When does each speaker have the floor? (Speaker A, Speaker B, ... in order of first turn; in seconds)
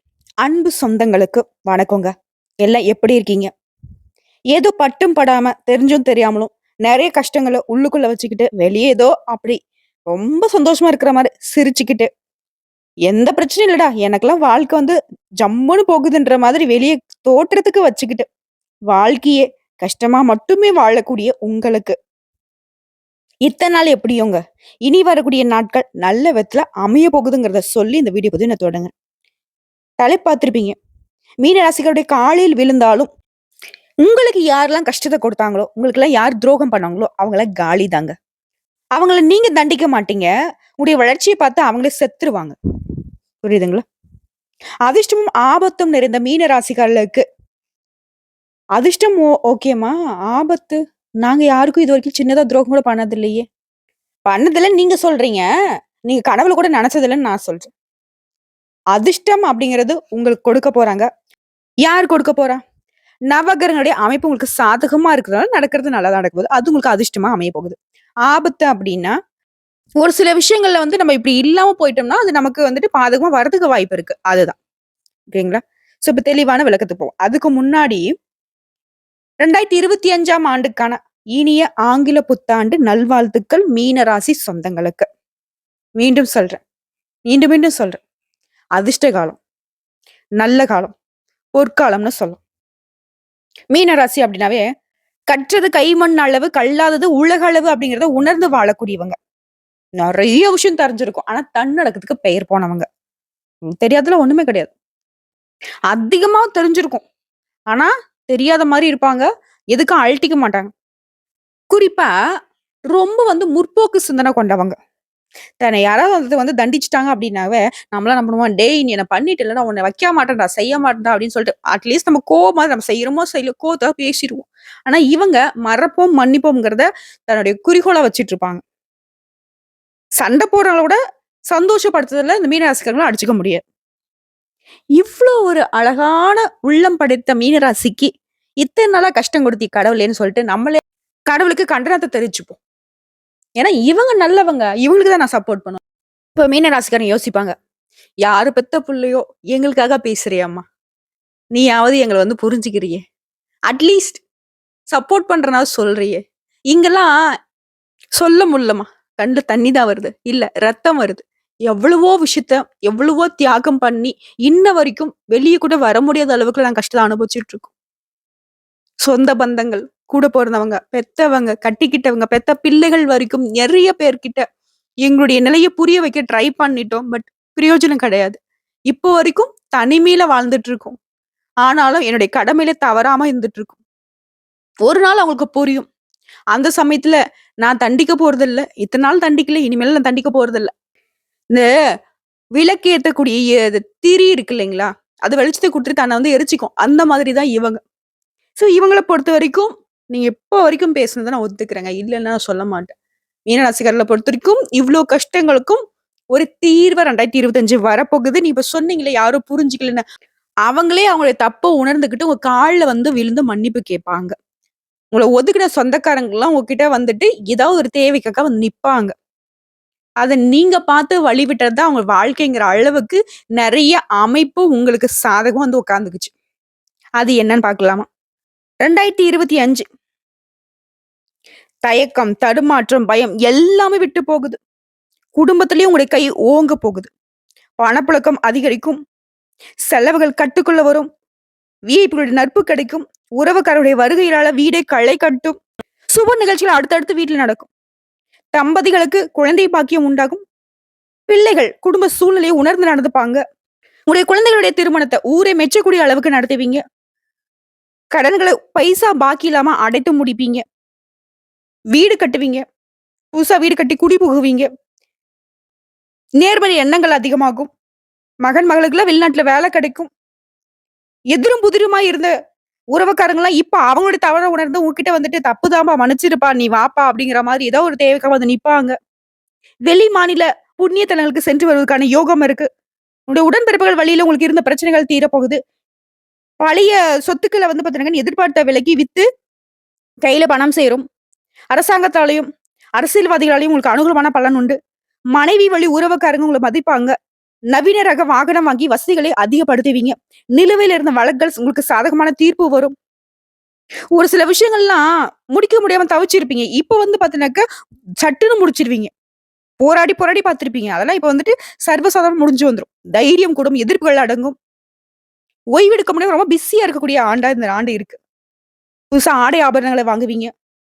Speaker A: 0.4-2.1, 2.6-3.5, 4.5-9.6, 10.1-12.1, 13.1-18.2, 18.9-21.9, 23.4-28.9, 30.0-30.8, 31.4-33.1, 34.0-38.1, 38.9-42.5, 43.4-43.8, 44.8-47.2, 48.8-53.4, 54.2-55.4, 56.1-57.7, 58.9-61.1, 61.8-62.6, 63.3-69.2, 70.0-74.6, 75.3-78.1, 79.4-85.0, 86.0-86.6, 87.3-88.0, 88.8-89.4, 90.4-90.9, 91.6-92.4, 93.7-94.6, 95.3-99.2, 100.0-102.8, 103.8-104.7, 105.9-107.0, 107.7-110.7, 111.7-112.1, 112.9-114.7, 115.6-128.6, 130.2-131.0, 131.5-133.6, 135.0-138.1, 138.6-142.6, 143.6-145.8, 146.3-147.5, 148.2-150.6, 151.5-153.0, 153.7-154.2, 154.9-157.1, 158.2-167.7, 169.0-174.4, 175.0-178.4, 178.9-181.0, 181.6-183.8, 184.8-185.8, 186.5-190.7, 192.6-197.8, 198.6-202.9, 203.5-205.8, 206.3-210.0, 210.6-214.3, 215.1-219.1, 220.2-226.3, 227.2-228.1, 228.8-229.8, 231.8-234.6, 235.3-237.1, 237.8-239.0, 239.9-241.1, 241.9-245.5, 246.1-247.7, 248.5-250.4, 251.3-253.4, 254.1-256.8, 258.1-260.6, 261.9-262.6, 263.3-264.7, 266.4-267.7, 268.4-270.1, 271.3-272.3, 272.9-278.9, 279.9-282.7, 283.3-285.6, 286.6-289.2, 290.2-291.0, 291.7-294.8, 295.3-297.1, 297.7-302.9, 304.1-307.6, 308.2-309.1, 309.8-314.6, 315.7-318.2, 319.1-320.5